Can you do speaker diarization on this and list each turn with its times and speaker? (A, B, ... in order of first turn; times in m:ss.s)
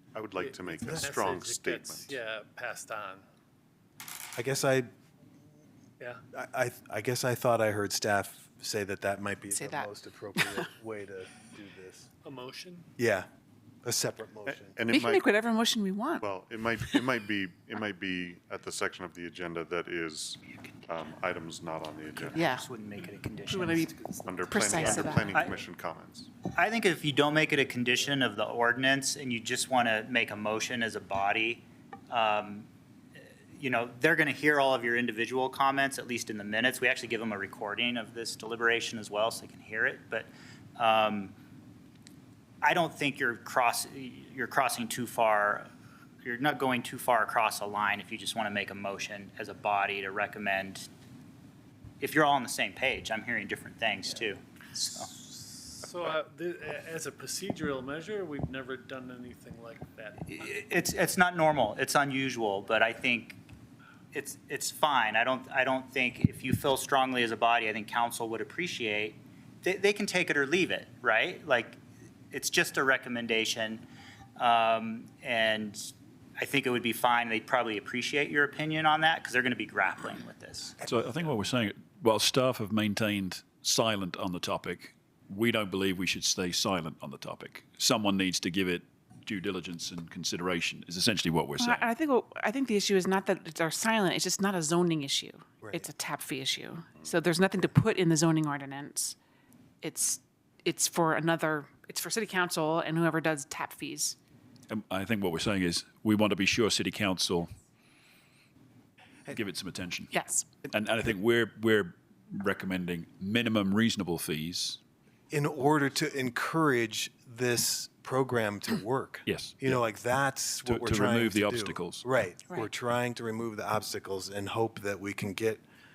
0:00.1-0:02.2 A
0:00.4-0:03.2 B
0:04.3-0:04.9 C
0:06.3-0:12.1 C
0:09.5-0:10.6 D
0:12.2-0:12.9 B
0:13.0-0:13.2 C
0:13.8-0:14.8 C
0:14.4-0:15.3 A
0:14.9-0:16.2 D
0:16.2-0:22.4 A
0:22.1-0:23.9 E
0:22.3-0:22.6 D
0:23.5-0:25.4 D
0:24.2-0:26.3 A
0:24.8-0:25.6 E
0:26.4-0:32.6 E
0:33.6-0:41.3 E
0:42.6-0:45.7 E
0:46.2-0:50.9 E
0:52.0-0:55.0 E
0:54.9-1:00.5 B
1:00.3-1:03.4 E
1:04.1-1:11.8 E
1:12.3-1:13.8 E
1:14.4-1:20.8 E
1:20.8-1:21.3 C
1:20.8-1:31.9 F
1:31.6-1:39.2 D
1:35.6-1:35.9 C
1:39.8-1:44.2 D
1:44.7-1:47.5 F
1:49.3-1:50.1 F
1:50.1-1:50.5 D
1:50.7-1:54.8 F
1:55.3-2:05.6 C
1:59.2-1:59.8 F
2:00.6-2:02.0 F